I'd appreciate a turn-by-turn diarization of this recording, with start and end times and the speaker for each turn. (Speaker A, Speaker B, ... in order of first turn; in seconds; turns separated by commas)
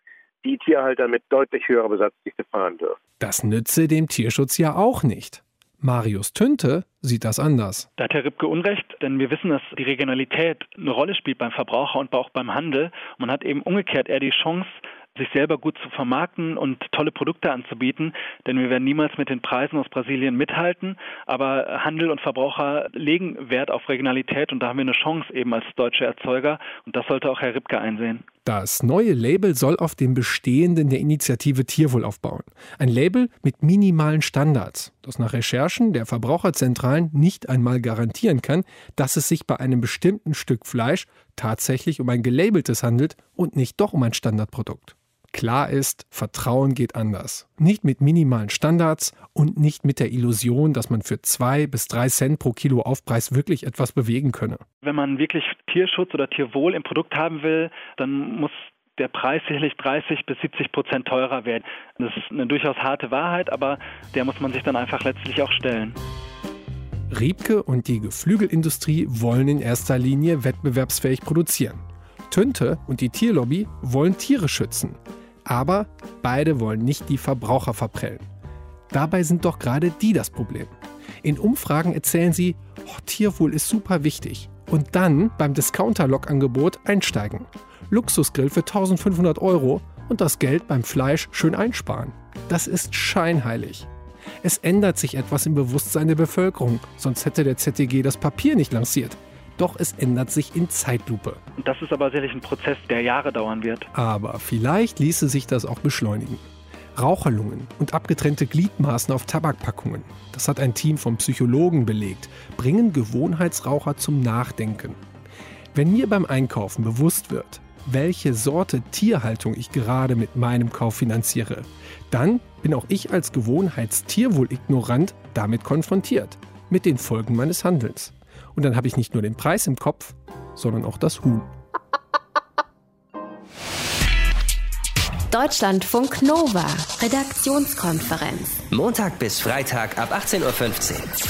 Speaker A: 0.4-3.0, Speaker B: 3.2-7.9, Speaker C: 8.0-28.2, Speaker B: 28.4-54.6, Speaker C: 54.8-66.0, Speaker B: 67.1-78.3, Speaker B: 78.9-93.9, Speaker B: 94.4-101.4, Speaker C: 101.6-103.9, Speaker B: 103.9-115.0, Speaker B: 115.7-131.5, Speaker D: 135.3-138.6, Speaker E: 138.7-141.1